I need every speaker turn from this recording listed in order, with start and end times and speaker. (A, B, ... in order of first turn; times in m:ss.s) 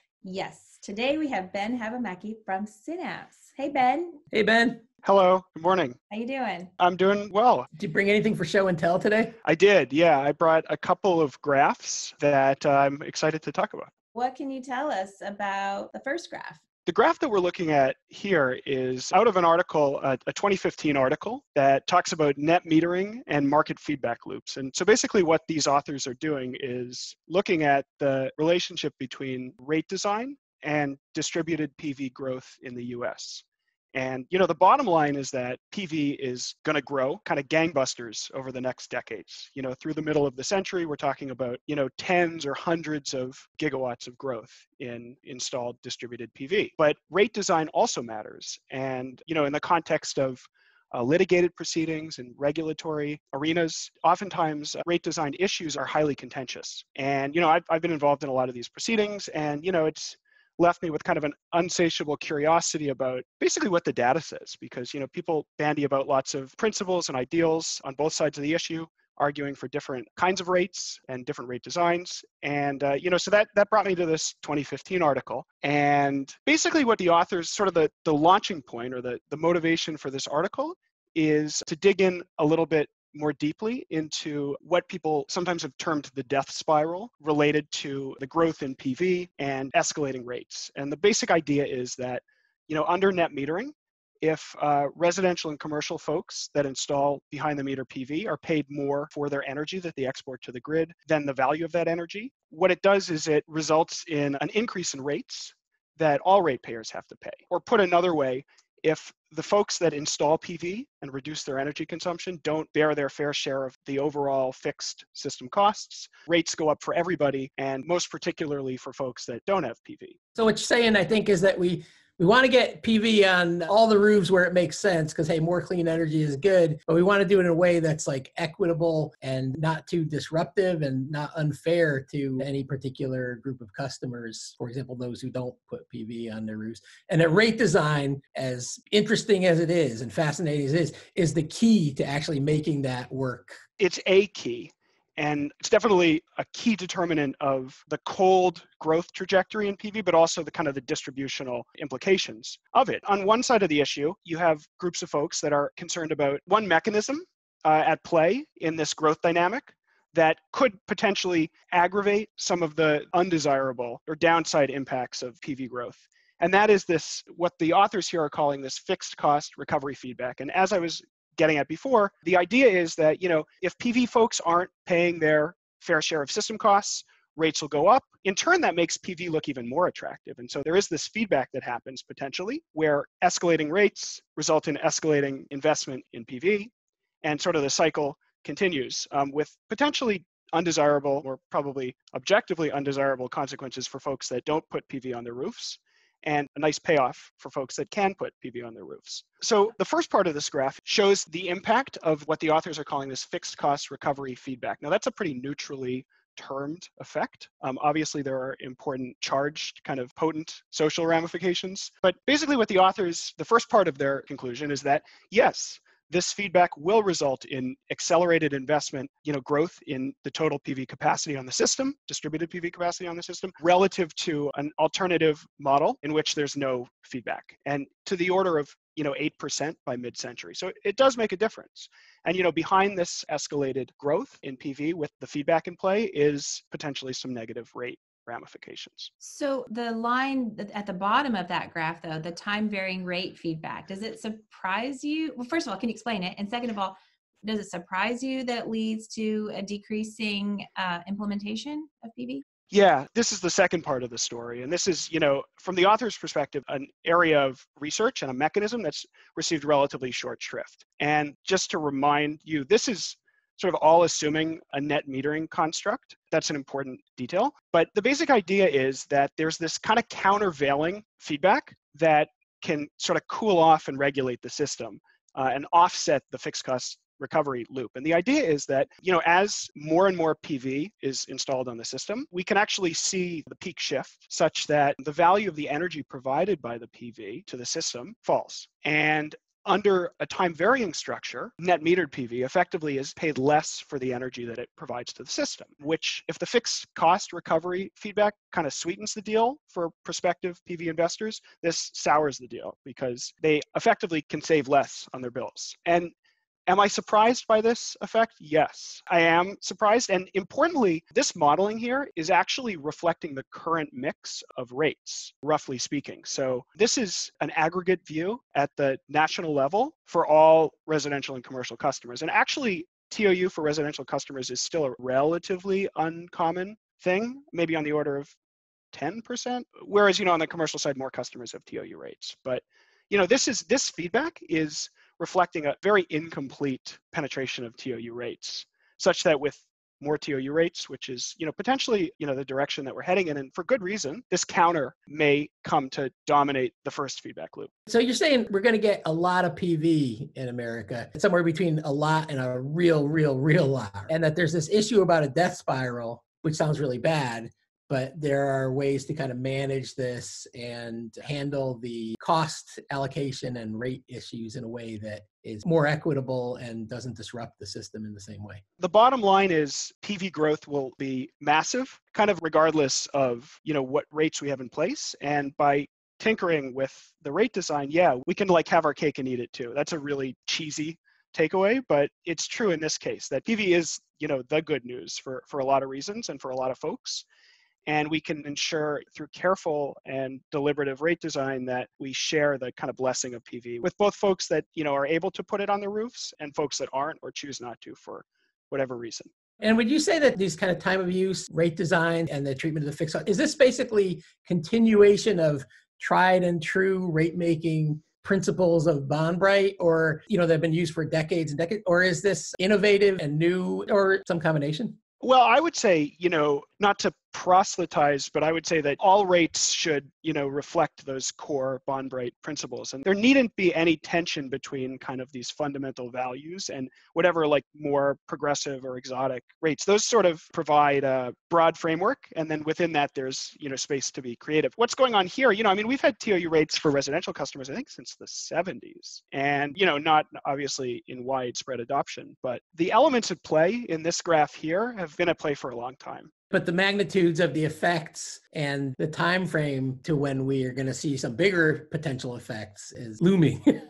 0:00.2-0:04.2 A
0:04.3-0:04.8 B
0:05.0-0:06.0 C
0:06.1-0:06.7 A
0:06.8-0:07.7 C
0:07.8-0:09.3 B
0:09.4-0:13.9 C
0:14.1-0:16.6 A
0:16.8-2:00.2 C
2:00.4-2:23.6 B
2:23.8-3:59.1 C
3:59.2-4:12.4 A
4:12.7-5:06.1 C
5:06.7-5:28.3 C
5:28.9-5:47.7 C
5:47.9-6:08.6 B
6:08.8-6:27.2 C
6:27.9-6:39.3 C
6:39.6-6:55.0 B
6:55.2-7:26.3 C
7:26.5-7:33.6 B